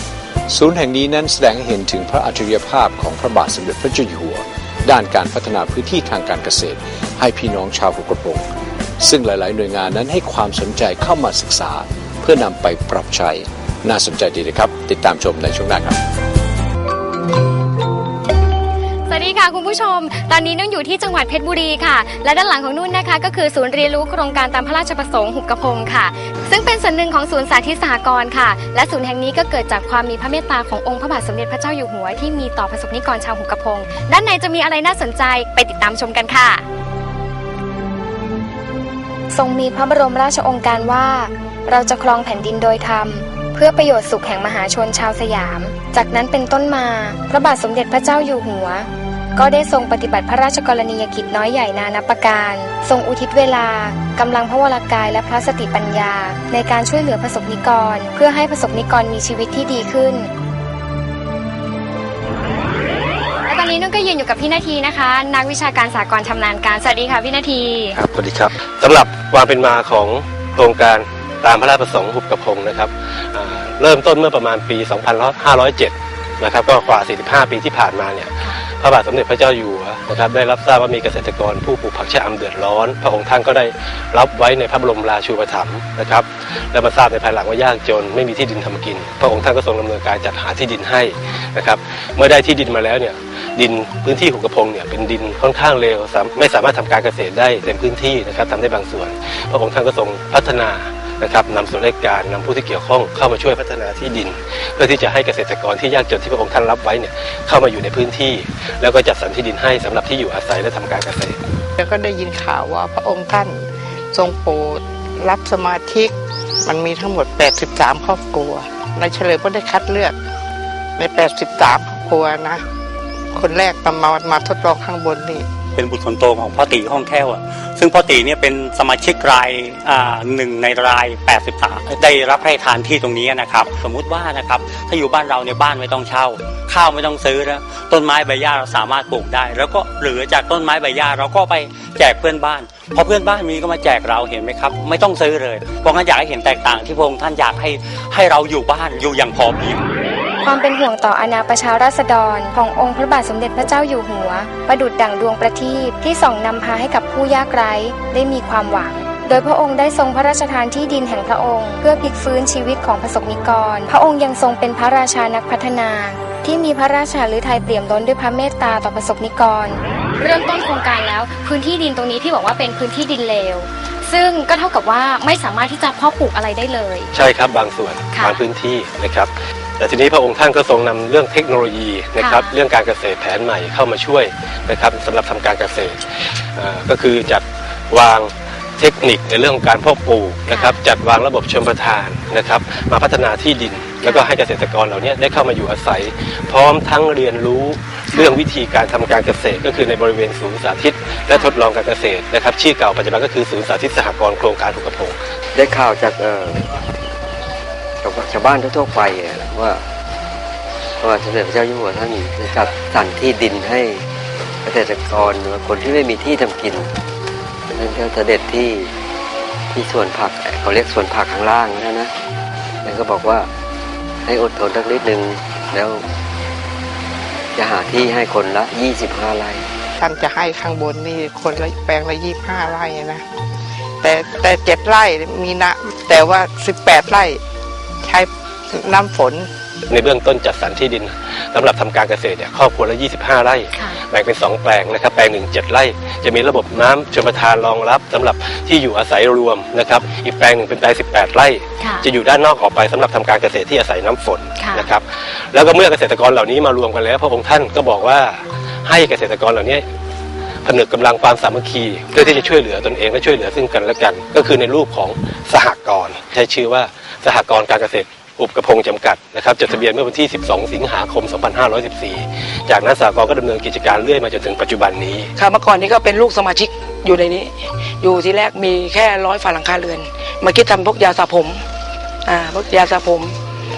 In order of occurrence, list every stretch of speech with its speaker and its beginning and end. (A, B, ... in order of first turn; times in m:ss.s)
0:00.5-0:08.4 A
0:09.0-0:16.0 A
0:19.1-0:36.6 B
0:39.3-1:00.3 B
1:03.5-1:08.0 B
1:07.9-1:51.4 C
1:51.8-1:56.1 D
1:56.6-2:00.2 D
2:01.0-2:02.6 D
2:03.3-2:05.5 D
2:05.8-2:29.8 E
2:30.4-2:57.1 B
2:57.1-3:25.2 C
2:58.2-2:58.4 B
3:02.2-3:02.5 B
3:25.5-3:26.8 F
3:28.0-3:29.8 F
3:31.0-3:34.0 F
3:34.6-3:36.9 F
3:37.7-3:38.9 F
3:39.7-3:42.1 F
3:42.8-3:43.5 F
3:44.3-3:46.0 F
3:47.6-3:49.7 F
3:50.0-3:53.2 D
3:54.0-3:57.4 D
3:58.0-3:59.5 D
3:59.9-4:19.8 C
4:14.6-4:14.9 B
4:20.6-4:35.3 C
4:22.2-4:22.6 B
4:35.4-4:41.6 G
4:42.3-4:43.4 G